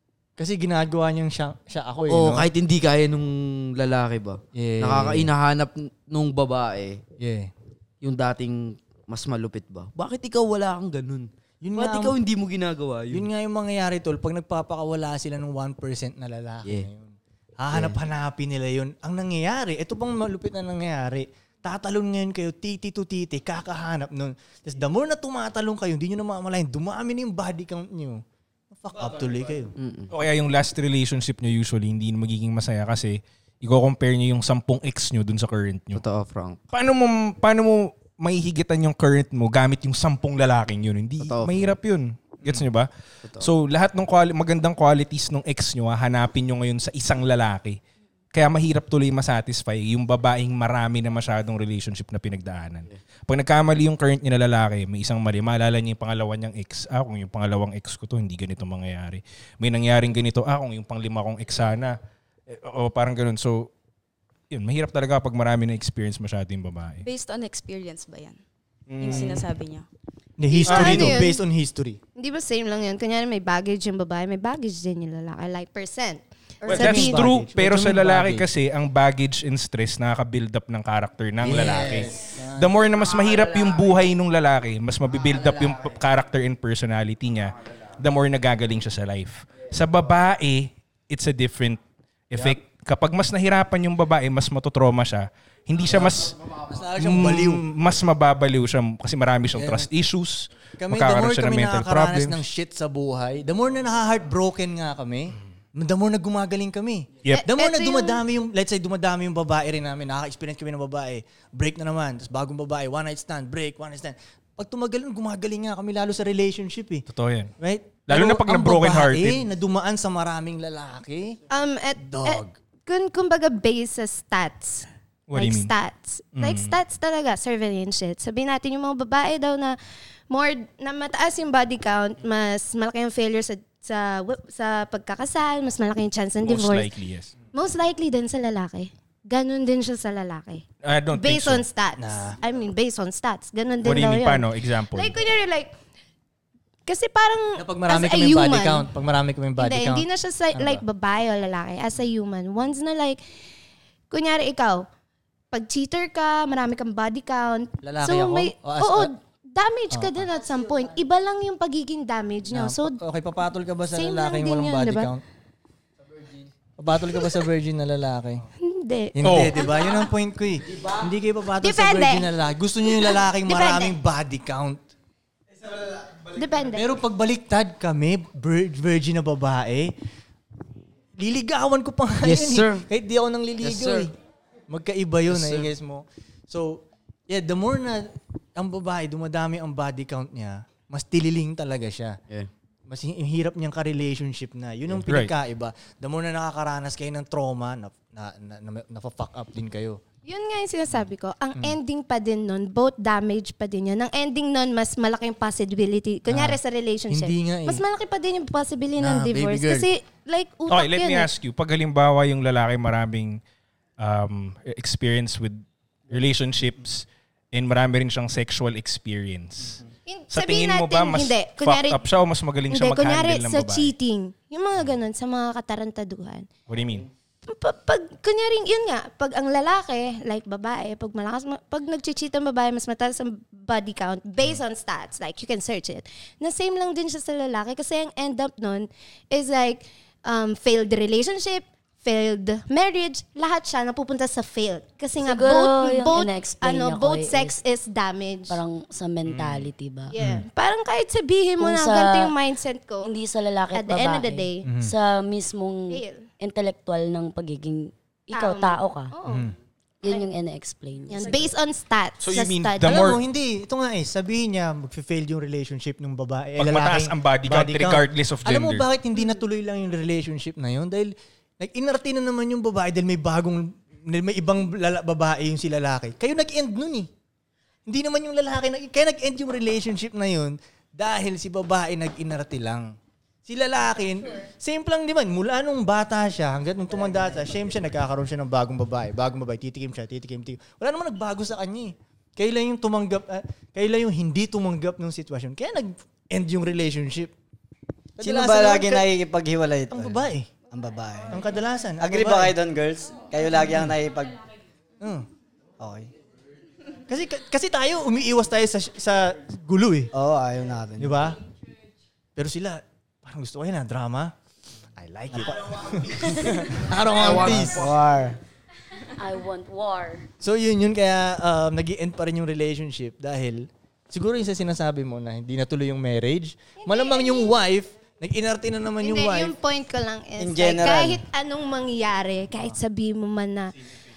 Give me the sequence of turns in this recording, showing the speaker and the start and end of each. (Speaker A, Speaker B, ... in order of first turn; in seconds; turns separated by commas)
Speaker A: 0.4-2.5, Speaker B: 2.1-7.0, Speaker A: 4.5-5.3, Speaker A: 7.2-7.5, Speaker B: 8.0-13.3, Speaker A: 11.6-12.2, Speaker A: 13.1-29.7, Speaker B: 17.7-18.0, Speaker B: 29.8-30.1, Speaker C: 30.1-36.0, Speaker B: 35.9-36.6, Speaker C: 36.7-42.9, Speaker B: 41.2-41.8, Speaker B: 43.2-43.5, Speaker C: 43.4-47.8, Speaker C: 48.3-62.0, Speaker C: 62.5-63.7, Speaker C: 64.5-67.0, Speaker D: 67.0-68.4, Speaker C: 68.9-69.4, Speaker D: 69.0-69.9, Speaker A: 70.4-72.0, Speaker E: 70.5-71.4, Speaker C: 70.7-71.2, Speaker E: 72.2-77.3, Speaker C: 76.7-96.4, Speaker A: 76.7-78.5, Speaker A: 81.4-82.7, Speaker B: 83.0-83.8, Speaker B: 85.3-85.7, Speaker A: 95.9-97.6, Speaker C: 97.0-102.4, Speaker A: 99.5-99.9, Speaker A: 100.8-117.1, Speaker E: 107.3-108.2, Speaker C: 117.1-117.5, Speaker A: 117.6-121.4, Speaker C: 118.1-119.4, Speaker E: 121.5-129.8, Speaker A: 122.0-122.6, Speaker C: 125.3-125.7, Speaker C: 126.4-126.8, Speaker E: 130.3-136.9, Speaker C: 136.4-137.3, Speaker E: 137.5-145.7, Speaker C: 140.8-141.6, Speaker A: 142.0-142.4, Speaker C: 143.8-145.2, Speaker E: 146.9-148.9, Speaker A: 147.6-150.8, Speaker E: 149.6-153.2, Speaker E: 154.1-154.9, Speaker E: 155.5-163.0, Speaker A: 157.8-159.1, Speaker A: 159.9-160.3, Speaker A: 162.5-165.2, Speaker E: 163.9-165.1, Speaker A: 166.8-168.4, Speaker E: 168.6-169.9, Speaker A: 169.2-174.8, Speaker C: 169.2-169.6, Speaker E: 171.6-172.3, Speaker E: 173.0-173.9, Speaker E: 176.3-176.9, Speaker A: 176.8-179.9, Speaker A: 181.2-184.1, Speaker B: 182.2-182.9, Speaker B: 183.6-184.1, Speaker A: 184.7-192.2, Speaker B: 185.3-185.7, Speaker A: 192.9-200.0, Speaker C: 195.1-195.3, Speaker E: 200.2-211.3, Speaker A: 206.3-206.6, Speaker A: 207.1-207.8, Speaker A: 209.0-209.9, Speaker C: 210.7-213.4, Speaker C: 214.0-223.9, Speaker E: 220.1-222.1, Speaker E: 222.7-226.5, Speaker C: 226.7-227.1, Speaker E: 227.5-248.6, Speaker F: 245.2-247.6, Speaker F: 248.5-250.1, Speaker C: 249.3-249.6, Speaker E: 250.1-253.1, Speaker A: 250.2-250.4, Speaker F: 251.6-252.3, Speaker F: 253.0-259.1, Speaker E: 253.7-254.7, Speaker A: 254.7-254.9, Speaker E: 255.9-256.3, Speaker E: 258.3-259.5, Speaker A: 259.3-259.5, Speaker F: 260.0-261.5, Speaker E: 261.1-263.2, Speaker C: 262.2-263.2, Speaker A: 262.9-277.1, Speaker C: 266.6-268.9, Speaker A: 277.9-282.9, Speaker A: 283.5-297.3, Speaker A: 298.2-299.1, Speaker G: 298.2-300.2, Speaker A: 299.9-300.5, Speaker G: 300.7-301.4, Speaker A: 301.3-302.6, Speaker G: 302.0-304.4, Speaker A: 303.5-303.9, Speaker A: 305.0-305.3, Speaker G: 305.8-306.1, Speaker A: 307.1-310.1, Speaker G: 310.1-311.2, Speaker A: 311.0-311.4, Speaker A: 312.4-314.3, Speaker A: 315.0-317.9, Speaker B: 317.1-317.9, Speaker G: 317.7-318.4, Speaker F: 319.2-320.3, Speaker A: 320.4-329.5, Speaker E: 326.9-327.5, Speaker E: 329.0-333.8, Speaker G: 330.4-331.2